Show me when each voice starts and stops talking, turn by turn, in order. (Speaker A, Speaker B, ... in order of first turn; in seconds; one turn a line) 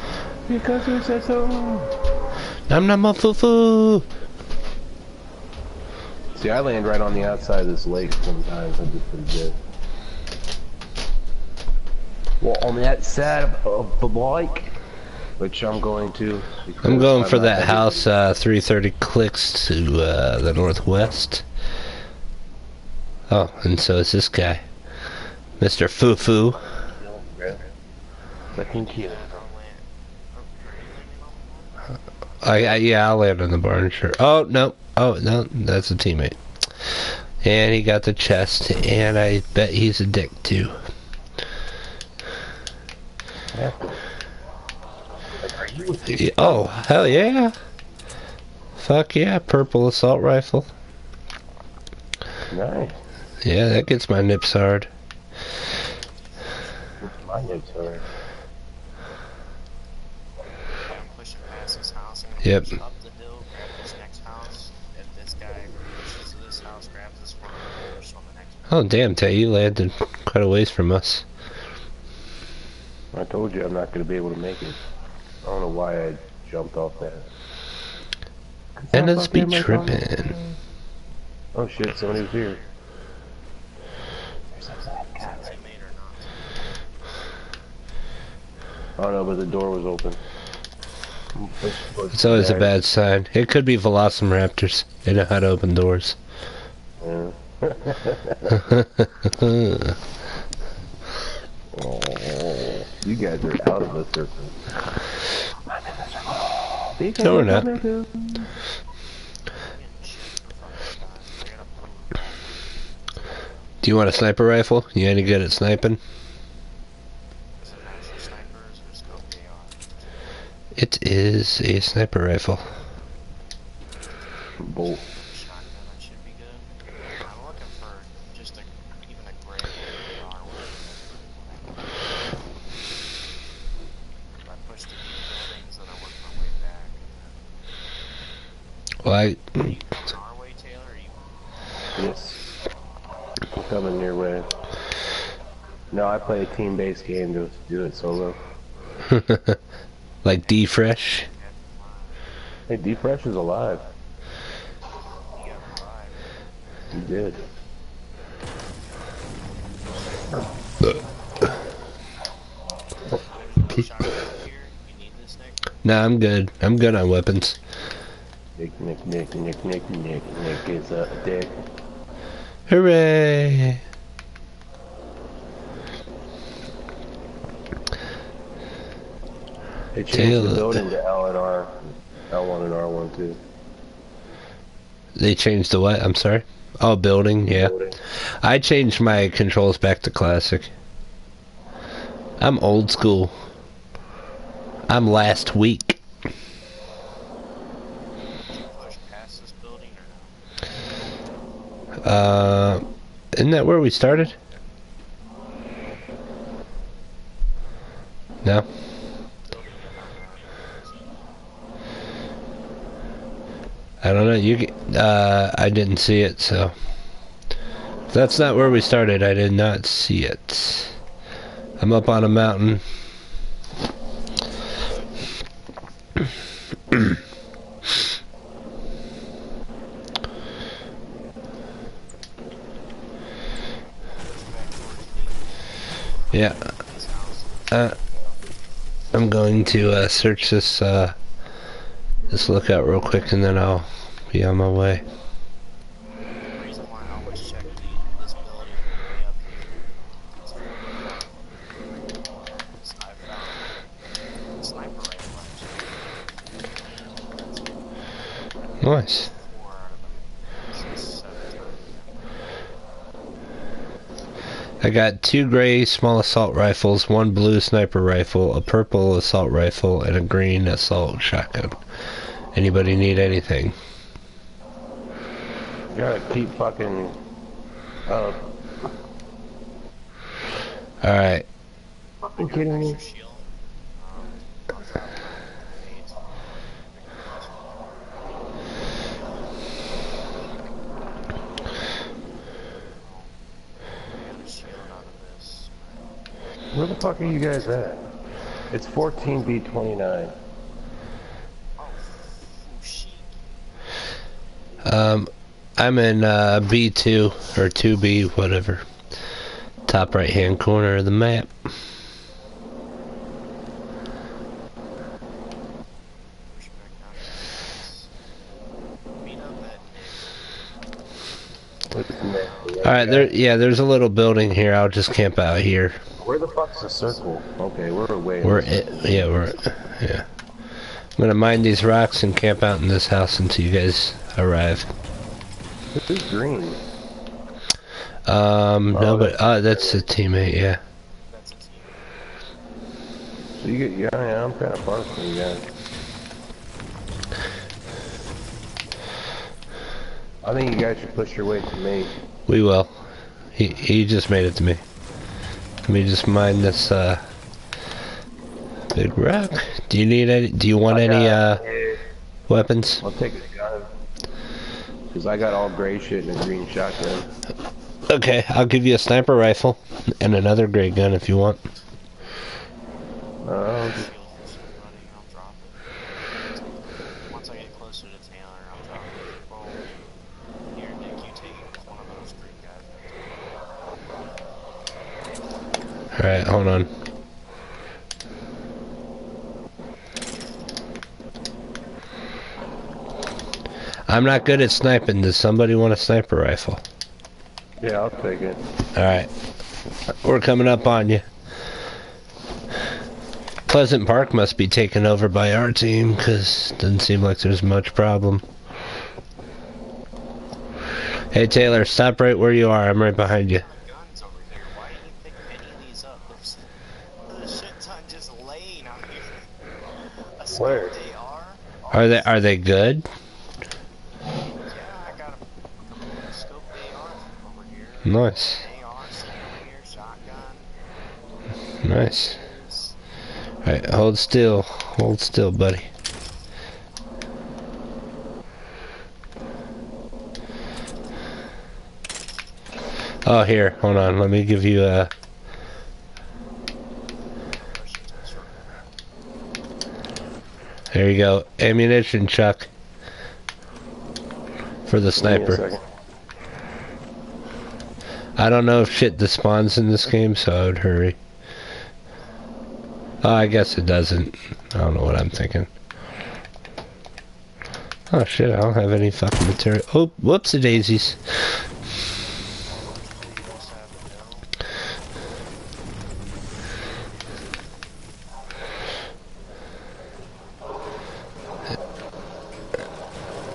Speaker A: 0.5-1.9
Speaker B: 2.7-4.1
Speaker A: 6.3-9.6
Speaker C: 7.2-8.1
Speaker A: 12.4-14.7
Speaker A: 15.4-18.1
Speaker B: 16.8-21.4
Speaker B: 23.3-24.6
Speaker B: 25.6-26.6
Speaker A: 26.8-27.6
Speaker A: 28.6-29.4
Speaker C: 28.6-31.9
Speaker B: 32.4-40.8
Speaker A: 43.5-44.0
Speaker A: 45.4-46.6
Speaker B: 46.1-47.5
Speaker B: 48.8-50.7
Speaker A: 52.5-53.0
Speaker C: 52.9-53.2
Speaker B: 53.4-54.9
Speaker C: 55.6-58.1
Speaker A: 57.0-58.0
Speaker C: 60.8-68.8
Speaker B: 62.4-62.8
Speaker B: 68.7-71.2
Speaker A: 73.1-74.8
Speaker A: 75.4-77.3
Speaker A: 78.8-80.6
Speaker B: 78.9-80.3
Speaker A: 81.5-82.6
Speaker C: 82.0-82.7
Speaker A: 84.6-85.5
Speaker C: 85.0-86.8
Speaker A: 89.0-90.2
Speaker A: 91.3-92.7
Speaker B: 92.1-96.2
Speaker A: 97.0-98.7
Speaker B: 98.6-100.0
Speaker A: 101.7-105.0
Speaker A: 105.6-108.5
Speaker B: 107.2-107.7
Speaker C: 109.5-112.8
Speaker B: 113.8-116.0
Speaker C: 117.6-120.1
Speaker B: 120.8-122.6
Speaker C: 124.4-132.4
Speaker A: 124.6-125.0
Speaker C: 134.4-137.4
Speaker B: 139.0-139.8
Speaker C: 139.6-141.4
Speaker A: 141.9-142.4
Speaker A: 143.6-144.6
Speaker A: 145.9-148.4
Speaker C: 146.5-148.1
Speaker B: 149.1-149.6
Speaker B: 150.2-151.3
Speaker C: 150.3-152.2
Speaker A: 152.7-153.8
Speaker C: 155.3-156.3
Speaker A: 156.9-157.4
Speaker C: 160.9-161.6
Speaker C: 163.1-165.7
Speaker B: 165.8-167.6
Speaker A: 168.6-171.6
Speaker B: 172.7-173.8
Speaker A: 179.9-183.4
Speaker B: 180.1-180.8
Speaker B: 185.2-190.7
Speaker A: 187.5-188.0
Speaker B: 192.4-193.3
Speaker B: 194.9-196.0
Speaker C: 198.5-200.3
Speaker B: 202.0-204.4
Speaker C: 209.5-211.2
Speaker B: 214.0-216.8
Speaker B: 218.1-220.9
Speaker B: 221.8-222.8
Speaker C: 234.2-238.5
Speaker B: 236.3-236.6
Speaker B: 237.7-237.9
Speaker B: 239.1-241.2
Speaker B: 242.3-245.0
Speaker C: 246.5-251.7
Speaker C: 252.2-253.8
Speaker C: 254.6-256.3
Speaker C: 257.1-257.8
Speaker B: 258.8-259.3
Speaker C: 259.0-262.3
Speaker B: 264.8-271.8
Speaker B: 272.6-273.8
Speaker A: 275.9-277.2
Speaker A: 278.1-278.5
Speaker B: 281.0-281.4
Speaker A: 282.2-283.0
Speaker C: 282.4-288.4
Speaker C: 288.9-289.5
Speaker C: 292.9-293.4
Speaker C: 294.1-296.1
Speaker A: 296.7-298.1
Speaker A: 298.7-300.4
Speaker C: 301.8-303.6
Speaker B: 304.9-308.9
Speaker B: 309.9-311.5
Speaker C: 316.5-318.1
Speaker C: 319.2-320.5
Speaker A: 321.9-323.3
Speaker C: 322.4-322.9
Speaker B: 322.8-326.0
Speaker A: 326.2-329.5
Speaker B: 328.4-330.3
Speaker B: 331.2-334.9
Speaker A: 335.9-336.8
Speaker B: 338.2-340.8
Speaker A: 338.9-340.0
Speaker C: 341.2-342.2
Speaker A: 343.6-345.7
Speaker A: 350.4-352.2
Speaker B: 352.5-352.9
Speaker B: 353.6-354.8
Speaker B: 355.9-357.2
Speaker B: 358.9-361.6
Speaker A: 360.9-362.0
Speaker B: 362.5-363.0
Speaker A: 363.0-363.9
Speaker A: 365.1-367.2
Speaker B: 368.1-371.6
Speaker A: 373.4-374.1
Speaker C: 373.7-375.9
Speaker C: 376.8-380.0
Speaker C: 380.7-383.2
Speaker B: 386.1-386.9
Speaker B: 394.1-396.8
Speaker A: 397.8-398.6
Speaker B: 398.9-399.3
Speaker B: 400.2-401.2
Speaker B: 403.7-408.4
Speaker B: 411.3-413.6
Speaker C: 413.2-416.7
Speaker C: 417.2-422.4
Speaker A: 420.5-420.9
Speaker B: 421.9-423.1
Speaker C: 424.7-430.7
Speaker B: 428.1-428.6
Speaker B: 431.8-432.4
Speaker C: 432.4-433.0
Speaker B: 433.6-435.9
Speaker B: 443.2-445.1
Speaker C: 447.6-448.6
Speaker B: 450.9-452.7
Speaker B: 454.9-455.6
Speaker A: 455.1-455.8
Speaker B: 458.4-461.2
Speaker B: 463.2-465.7
Speaker B: 468.1-471.2
Speaker C: 472.5-474.6